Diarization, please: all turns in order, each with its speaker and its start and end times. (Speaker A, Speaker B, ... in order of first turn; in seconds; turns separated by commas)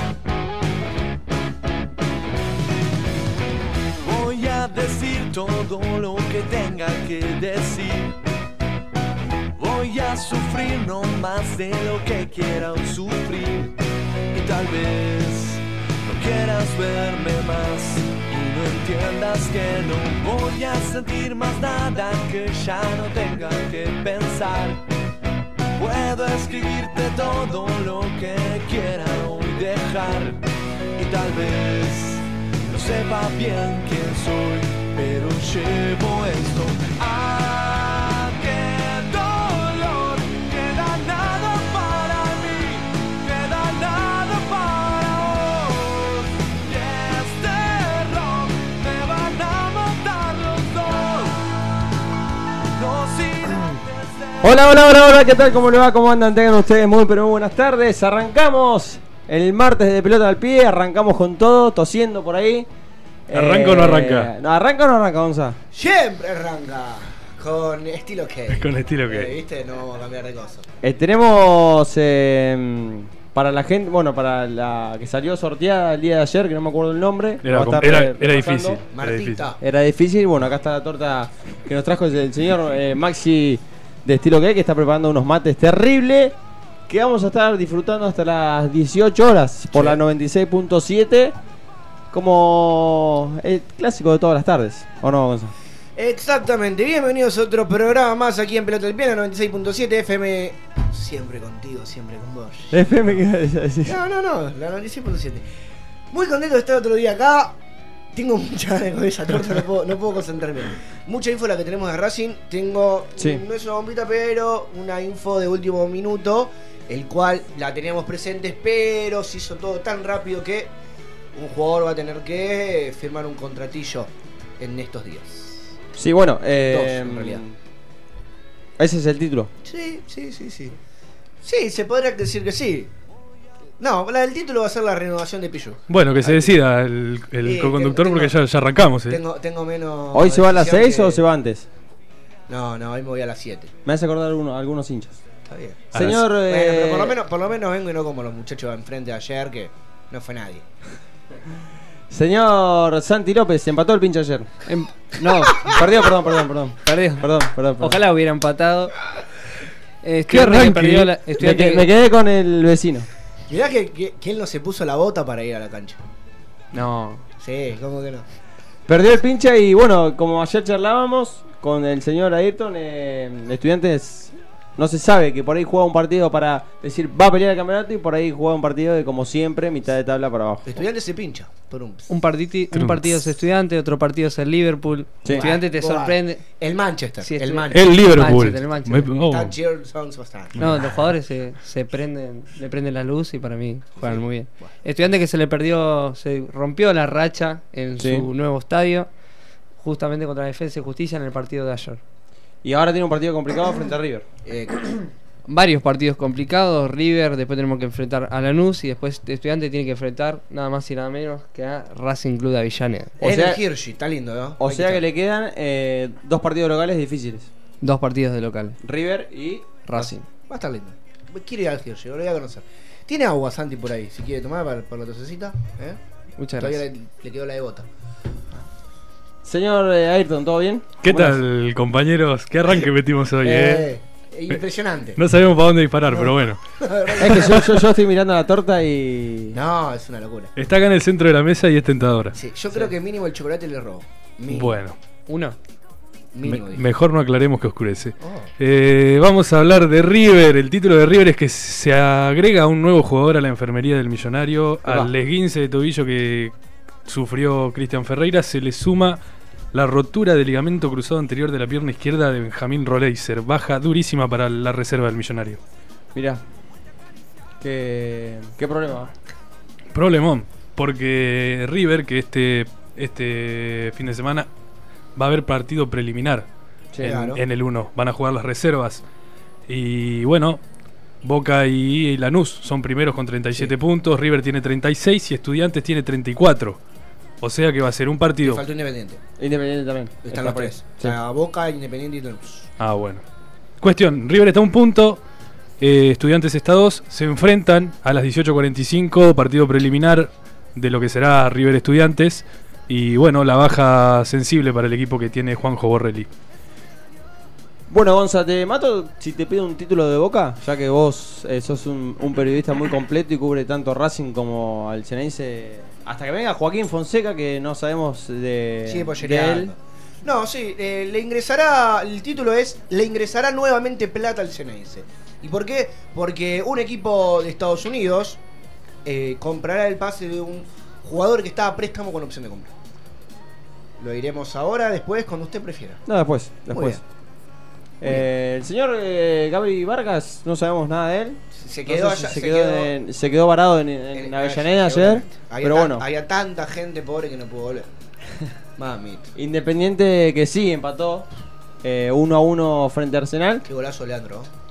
Speaker A: 4.0-8.2, Speaker A: 9.6-13.8, Speaker A: 14.3-24.8, Speaker A: 25.8-30.4, Speaker A: 31.0-51.5, Speaker A: 52.7-54.6, Speaker B: 54.4-62.7, Speaker B: 63.3-65.6, Speaker C: 63.3-64.3, Speaker D: 65.7-70.7, Speaker C: 68.5-69.3, Speaker B: 70.8-78.8, Speaker C: 77.4-79.5, Speaker D: 78.9-79.6, Speaker B: 79.6-86.3, Speaker B: 86.9-91.4, Speaker B: 92.1-95.5, Speaker D: 96.0-103.1, Speaker B: 102.7-104.0, Speaker D: 103.8-105.5, Speaker D: 106.1-107.6, Speaker D: 108.1-120.7, Speaker D: 121.3-125.8, Speaker B: 126.0-127.5, Speaker D: 126.5-127.4, Speaker B: 128.8-129.5, Speaker D: 129.7-130.8, Speaker D: 131.4-132.9, Speaker D: 133.8-136.6, Speaker C: 135.9-139.2, Speaker D: 137.4-138.3, Speaker D: 139.1-141.2, Speaker B: 140.1-141.7, Speaker D: 142.5-143.7, Speaker B: 143.8-145.2, Speaker D: 145.4-150.7, Speaker C: 145.9-146.2, Speaker B: 145.9-147.2, Speaker B: 152.1-154.5, Speaker E: 154.7-155.7, Speaker B: 155.7-158.0, Speaker E: 156.8-158.9, Speaker E: 160.0-161.9, Speaker B: 160.3-163.1, Speaker D: 163.5-166.0, Speaker E: 166.7-167.2, Speaker D: 167.4-168.2, Speaker B: 168.9-180.8, Speaker D: 180.7-182.1, Speaker E: 182.1-186.4, Speaker C: 182.7-183.2, Speaker B: 185.2-185.5, Speaker D: 185.3-187.9, Speaker E: 187.2-189.1, Speaker C: 187.7-189.5, Speaker D: 189.2-190.6, Speaker C: 190.6-190.9, Speaker E: 190.6-199.1, Speaker D: 194.0-194.7, Speaker B: 198.0-198.3, Speaker E: 199.8-202.0, Speaker B: 202.6-204.3, Speaker D: 204.4-204.8, Speaker E: 205.5-213.2, Speaker B: 213.2-213.6, Speaker D: 213.2-215.0, Speaker B: 214.6-217.5, Speaker E: 217.8-218.8, Speaker B: 218.8-220.1, Speaker E: 219.9-220.2, Speaker D: 220.5-226.0, Speaker E: 226.4-226.8, Speaker D: 226.6-227.9, Speaker B: 229.4-231.2, Speaker C: 231.0-233.9, Speaker D: 233.4-235.2, Speaker C: 235.2-236.6, Speaker D: 236.1-237.8, Speaker B: 237.2-239.6, Speaker D: 239.5-240.5, Speaker C: 240.6-242.4, Speaker D: 242.3-244.8, Speaker C: 244.5-244.9, Speaker E: 245.3-245.6, Speaker D: 246.3-246.8, Speaker C: 246.4-256.5, Speaker D: 248.2-248.5, Speaker B: 254.9-255.1, Speaker C: 257.1-259.2, Speaker C: 259.7-265.6, Speaker B: 266.1-266.4, Speaker B: 267.6-269.1, Speaker C: 269.9-274.5, Speaker C: 275.2-276.5, Speaker B: 276.9-277.2, Speaker D: 277.0-277.4, Speaker C: 277.1-279.0, Speaker C: 279.7-280.6, Speaker C: 281.2-286.8, Speaker C: 287.4-288.6, Speaker D: 288.4-289.2, Speaker B: 289.4-291.2, Speaker D: 290.2-292.7, Speaker C: 292.8-293.2, Speaker C: 293.8-295.2, Speaker C: 295.8-306.3, Speaker B: 307.9-319.7, Speaker D: 318.9-328.4, Speaker D: 329.1-332.7, Speaker D: 334.0-336.0, Speaker B: 336.1-337.0, Speaker D: 336.7-337.0, Speaker B: 338.0-346.1, Speaker D: 338.0-338.3, Speaker D: 341.5-342.9, Speaker D: 344.1-347.9, Speaker D: 348.8-349.3, Speaker B: 349.4-351.3, Speaker B: 351.8-353.7, Speaker D: 353.7-354.5